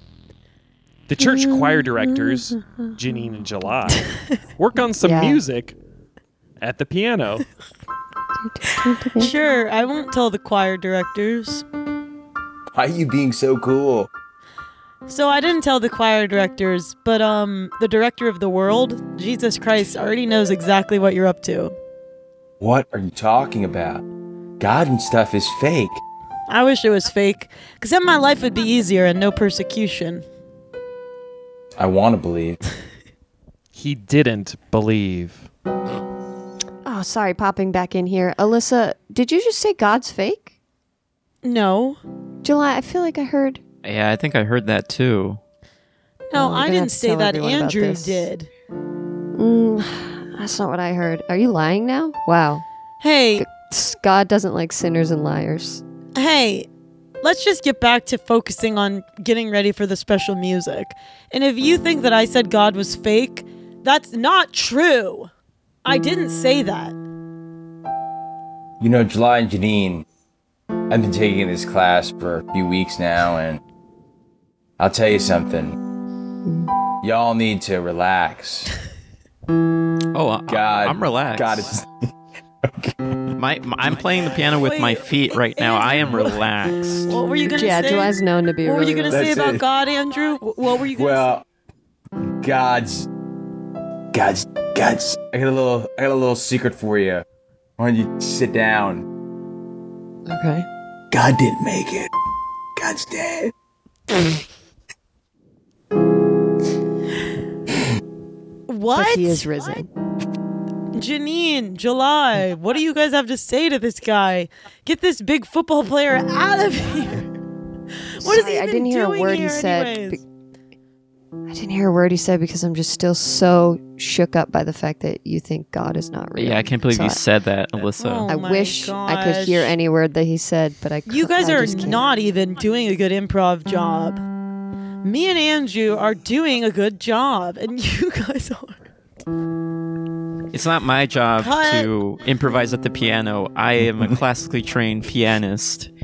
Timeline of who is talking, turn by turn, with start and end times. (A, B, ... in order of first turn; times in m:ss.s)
0:01.1-0:05.8 A
0:01.3-0:02.3 B
0:05.0-0:05.4 B
0:06.6-0:07.4 A
0:08.4-0:09.3 B
0:09.2-0:11.6 C
0:12.7-0:14.1 D
0:15.0-0:21.7 C
0:22.6-0:24.0 D
0:24.6-0:26.0 D
0:26.5-0:30.2 C
0:31.8-0:32.6 D
0:33.7-0:35.5 A
0:36.8-0:40.5 B
0:41.4-0:42.0 C
0:42.4-0:43.6 B
0:43.8-0:45.4 E
0:46.3-0:48.5 C
0:46.3-0:48.3 B
0:49.3-0:52.6 B
0:53.0-0:53.4 C
0:53.4-0:55.8 B
0:56.1-0:56.7 C
0:57.2-1:05.3 C
1:05.8-1:07.0 C
1:08.8-1:10.0 D
1:10.9-1:13.6 D
1:14.8-1:15.8 D
1:16.4-1:16.7 B
1:17.0-1:18.7 D
1:20.1-1:21.6 E
1:20.5-1:21.9 D
1:22.6-1:23.0 D
1:23.4-1:27.2 E
1:24.6-1:26.4 C
1:27.0-1:31.4 C
1:27.4-1:29.3 B
1:29.1-1:29.6 D
1:31.0-1:31.4 D
1:32.4-1:33.1 D
1:34.1-1:37.2 D
1:37.8-1:39.0 D
1:40.2-1:40.7 B
1:41.1-1:42.1 D
1:42.8-1:43.5 D
1:48.7-1:49.5 C
1:48.9-1:49.9 B
1:50.9-1:57.3 C
1:58.2-2:00.2 C
1:58.2-2:00.2 B
2:01.5-2:07.2 B
2:06.4-2:08.3 E
2:08.0-2:09.7 C
2:08.3-2:12.0 B
2:11.1-2:14.2 C
2:15.0-2:18.8 C
2:20.5-2:25.9 E
2:21.4-2:21.9 C